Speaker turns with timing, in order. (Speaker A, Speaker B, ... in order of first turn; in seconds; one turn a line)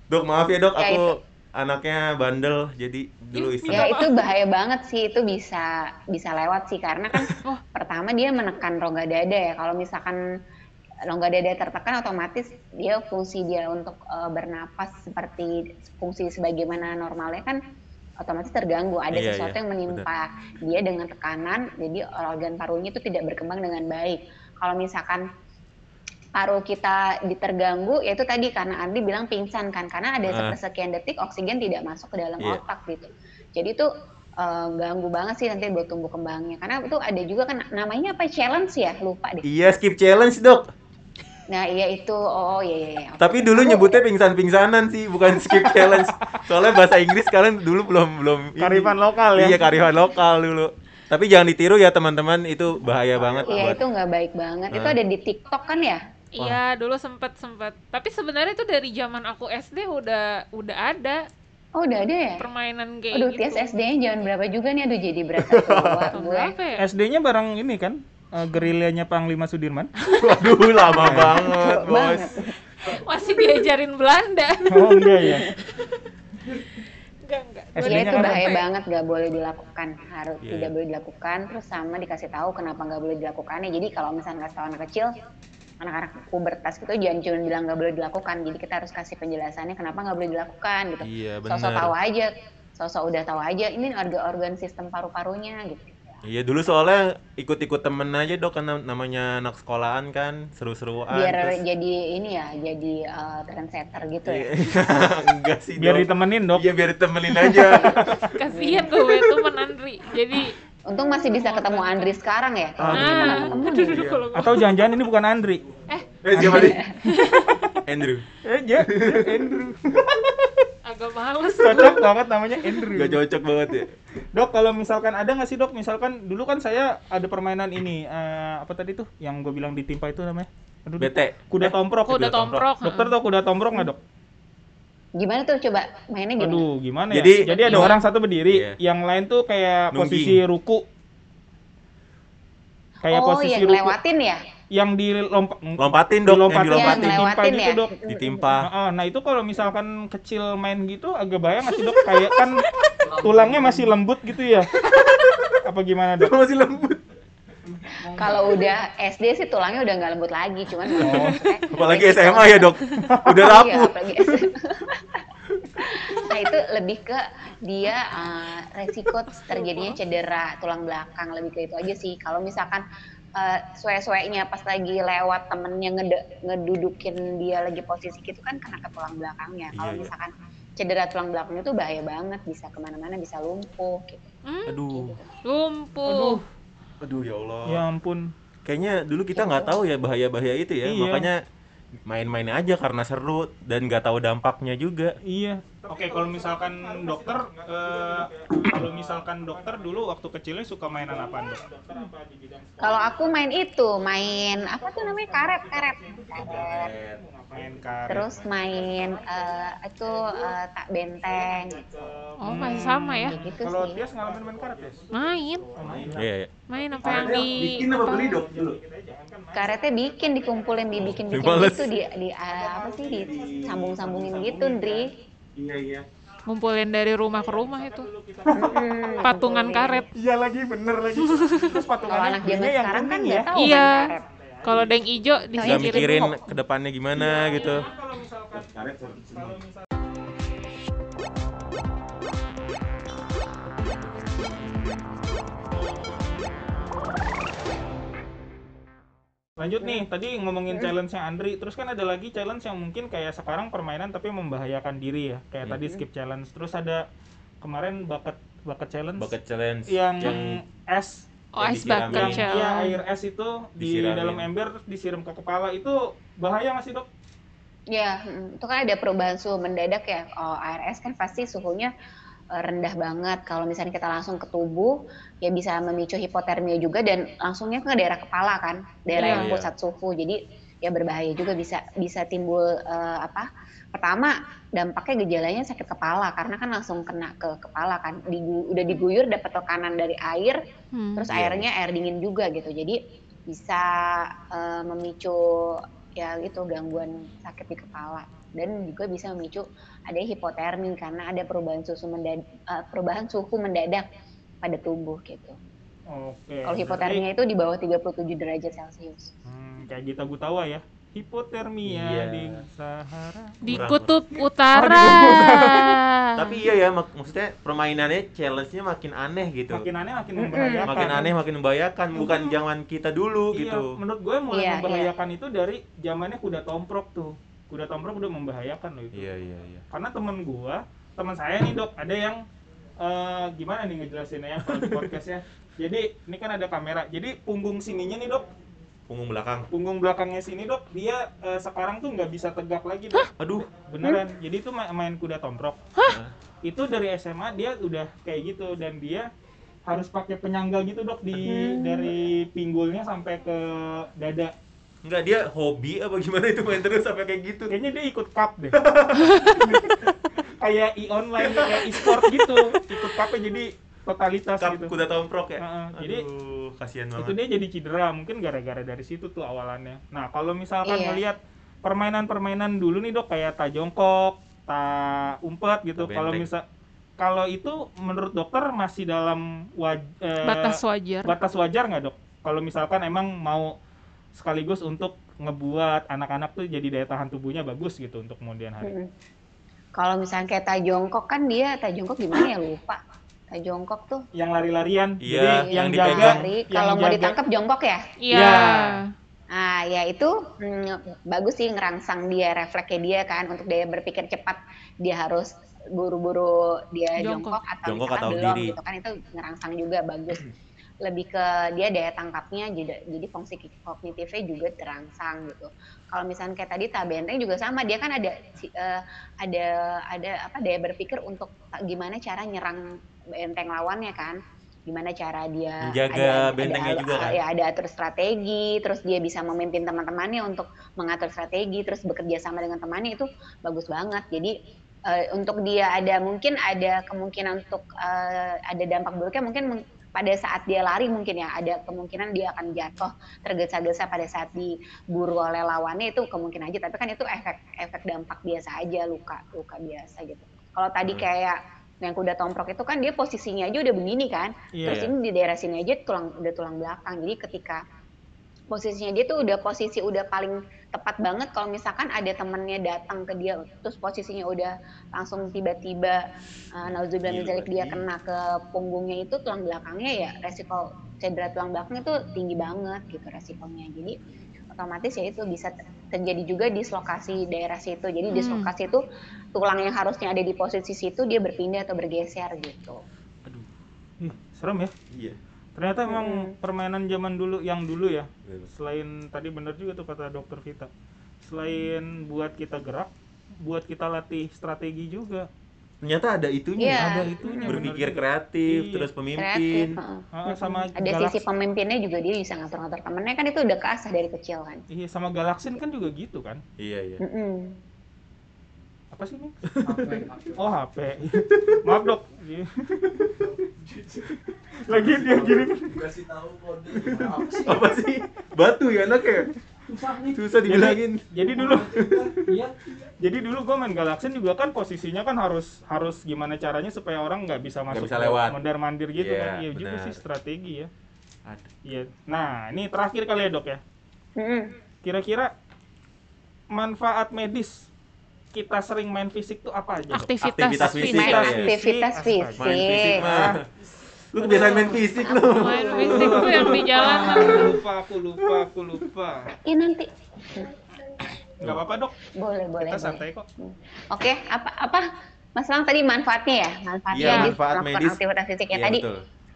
Speaker A: 0.1-3.9
Speaker B: 0.8-1.1
Speaker C: 3.4-4.3
Speaker B: 3.7-10.2
Speaker B: 11.1-17.6
Speaker B: 18.2-25.3
Speaker A: 19.1-20.1
Speaker B: 26.4-33.9
Speaker A: 30.3-30.6
Speaker B: 34.4-39.4
Speaker A: 39.4-40.7
Speaker B: 41.5-44.0
Speaker A: 43.2-53.8
Speaker D: 48.6-49.7
Speaker E: 53.2-53.5
Speaker B: 53.5-56.0
Speaker A: 54.7-55.0
Speaker C: 56.4-61.3
Speaker B: 61.8-62.4
Speaker C: 62.4-63.7
Speaker B: 63.1-66.5
Speaker A: 65.4-66.2
Speaker C: 66.1-66.8
Speaker D: 66.8-69.9
Speaker C: 70.0-70.8
Speaker A: 70.2-72.3
Speaker D: 71.0-71.4
Speaker B: 71.4-72.5
Speaker C: 72.8-75.8
Speaker D: 74.7-75.5
Speaker C: 77.2-78.7
Speaker D: 77.8-78.5
Speaker B: 77.8-85.1
Speaker A: 80.4-80.7
Speaker B: 85.8-96.2
Speaker A: 91.0-92.0
Speaker A: 96.2-101.6
Speaker B: 101.1-104.5
Speaker A: 104.2-108.2
Speaker D: 105.8-106.7
Speaker D: 107.4-108.3
Speaker B: 107.6-108.0
Speaker C: 108.3-112.2
Speaker B: 108.5-109.0
Speaker B: 110.9-114.1
Speaker A: 112.8-114.2
Speaker C: 112.9-114.7
Speaker D: 114.3-115.7
Speaker A: 116.2-116.9
Speaker D: 116.3-116.8
Speaker B: 116.4-117.0
Speaker C: 117.0-117.6
Speaker D: 117.3-117.8
Speaker A: 117.8-118.2
Speaker D: 118.4-120.2
Speaker A: 118.8-119.5
Speaker C: 120.8-122.1
Speaker D: 121.6-123.2
Speaker A: 122.9-123.9
Speaker D: 124.3-132.3
Speaker A: 131.0-132.7
Speaker C: 132.1-133.2
Speaker D: 132.8-134.0
Speaker B: 135.2-136.7
Speaker D: 136.4-140.8
Speaker A: 137.1-137.9
Speaker C: 137.6-138.0
Speaker A: 138.5-138.8
Speaker A: 139.9-140.4
Speaker D: 143.0-144.0
Speaker B: 143.1-144.4
Speaker D: 144.7-147.9
Speaker A: 145.8-147.3
Speaker B: 146.7-148.5
Speaker A: 148.1-148.7
Speaker D: 148.6-154.7
Speaker E: 153.0-153.9
Speaker A: 154.9-155.4
Speaker D: 155.6-156.3
Speaker A: 156.2-157.0
Speaker D: 158.0-158.6
Speaker B: 158.1-162.8
Speaker D: 161.0-161.4
Speaker A: 161.2-164.3
Speaker D: 163.0-163.4
Speaker B: 163.3-165.3
Speaker B: 165.8-184.2
Speaker C: 169.5-170.0
Speaker A: 179.7-180.1
Speaker C: 184.4-184.8
Speaker A: 184.7-185.2
Speaker B: 184.9-185.2
Speaker C: 185.4-186.4
Speaker D: 186.1-186.4
Speaker A: 187.0-187.8
Speaker D: 187.7-188.3
Speaker A: 188.7-191.4
Speaker B: 189.3-189.8
Speaker D: 190.8-191.3
Speaker A: 192.1-195.2
Speaker D: 195.2-203.3
Speaker B: 202.8-206.9
Speaker D: 204.5-210.6
Speaker A: 206.3-208.5
Speaker B: 208.1-212.7
Speaker D: 211.3-225.1
Speaker C: 212.4-213.4
Speaker B: 213.2-214.1
Speaker C: 215.1-215.7
Speaker A: 215.8-218.8
Speaker C: 216.7-218.4
Speaker B: 219.5-225.1
Speaker A: 221.0-221.9
Speaker A: 223.2-224.5
Speaker A: 225.6-226.1
Speaker C: 226.5-228.1
Speaker D: 227.3-229.5
Speaker B: 228.6-230.1
Speaker C: 229.2-230.1
Speaker D: 230.1-235.4
Speaker C: 231.2-231.8
Speaker B: 232.0-234.2
Speaker C: 233.6-234.1
Speaker C: 234.6-236.3
Speaker B: 235.6-236.2
Speaker A: 235.6-237.9
Speaker D: 237.2-238.7
Speaker A: 238.8-239.5
Speaker D: 239.3-239.9
Speaker D: 249.6-257.1
Speaker D: 257.6-259.4
Speaker A: 259.2-260.6
Speaker D: 259.9-261.3
Speaker C: 261.5-263.0
Speaker A: 261.6-262.6
Speaker D: 261.9-267.1
Speaker A: 263.8-264.5
Speaker B: 267.9-271.9
Speaker B: 272.5-290.6
Speaker C: 279.1-279.5
Speaker A: 279.2-279.7
Speaker C: 290.9-291.3
Speaker B: 291.2-304.1
Speaker A: 291.3-291.7
Speaker B: 304.6-305.6
Speaker D: 306.1-307.2
Speaker B: 306.6-309.3
Speaker D: 309.5-313.7
Speaker A: 311.9-312.6
Speaker C: 313.6-316.6
Speaker A: 313.7-314.3
Speaker D: 314.7-316.0
Speaker A: 315.0-315.6
Speaker A: 316.4-319.9
Speaker D: 319.7-321.3
Speaker B: 320.4-321.1
Speaker A: 320.9-324.0
Speaker D: 322.1-322.5
Speaker D: 323.5-329.3
Speaker B: 324.5-325.1
Speaker A: 329.1-329.9
Speaker D: 329.9-332.4
Speaker D: 333.0-338.5
Speaker A: 334.6-335.2
Speaker A: 339.1-339.7
Speaker D: 339.7-345.8
Speaker A: 343.4-343.7
Speaker A: 346.1-346.3
Speaker D: 346.6-349.3
Speaker D: 349.9-354.5
Speaker B: 351.5-352.1
Speaker A: 355.0-357.7
Speaker D: 357.7-358.8
Speaker A: 358.7-360.1
Speaker C: 359.3-359.6
Speaker D: 360.6-364.9
Speaker A: 361.4-363.0
Speaker A: 364.6-367.4
Speaker D: 365.6-366.3
Speaker D: 367.2-376.6
Speaker B: 370.9-371.2
Speaker A: 376.0-376.5
Speaker D: 377.2-383.7
Speaker C: 380.4-381.4
Speaker D: 384.4-388.9
Speaker B: 388.8-389.1
Speaker B: 389.9-394.2
Speaker D: 394.3-397.4
Speaker A: 395.2-396.5
Speaker B: 395.6-398.6
Speaker C: 398.2-399.1
Speaker D: 398.3-399.0
Speaker B: 399.5-434.6
Speaker C: 407.2-407.6
Speaker A: 407.9-408.8
Speaker A: 425.8-427.4
Speaker B: 435.1-457.9
Speaker D: 454.7-455.1
Speaker A: 454.9-455.1
Speaker B: 458.7-474.2
Speaker A: 466.8-468.1
Speaker B: 474.7-479.0
Speaker C: 478.3-478.7
Speaker B: 479.6-483.0
Speaker D: 484.2-484.9
Speaker A: 485.1-485.4
Speaker D: 485.8-490.9
Speaker B: 486.1-486.5
Speaker A: 488.4-488.7
Speaker D: 491.4-493.1
Speaker D: 493.6-495.5
Speaker A: 496.0-500.0
Speaker B: 496.8-497.9
Speaker D: 496.9-499.1
Speaker B: 499.4-504.8
Speaker D: 500.3-501.4
Speaker D: 504.9-506.6
Speaker A: 506.8-507.2
Speaker B: 507.2-507.8
Speaker D: 509.1-509.6
Speaker A: 509.7-510.1
Speaker E: 509.9-510.6
Speaker D: 510.6-513.3
Speaker A: 511.5-512.0
Speaker E: 513.4-518.0
Speaker D: 514.9-516.0
Speaker A: 517.0-519.5
Speaker E: 519.9-520.5
Speaker A: 520.3-522.4
Speaker D: 520.7-521.9
Speaker E: 521.4-523.0
Speaker D: 523.2-530.9
Speaker A: 527.9-528.6
Speaker A: 529.2-530.2
Speaker D: 531.9-533.8
Speaker B: 534.4-534.7
Speaker D: 535.0-535.5
Speaker D: 536.7-537.9
Speaker D: 538.5-540.3
Speaker C: 540.1-541.4
Speaker A: 540.4-541.7
Speaker B: 540.8-543.4
Speaker D: 541.2-543.6
Speaker A: 542.6-543.7
Speaker A: 544.3-546.8
Speaker D: 544.4-545.0
Speaker B: 545.1-546.4
Speaker C: 545.5-547.8
Speaker D: 545.8-549.5
Speaker B: 547.3-547.8
Speaker B: 549.6-550.7
Speaker D: 551.6-552.1
Speaker B: 552.4-559.0
Speaker D: 552.8-553.5
Speaker A: 557.1-558.2
Speaker C: 557.2-557.5
Speaker A: 558.7-559.2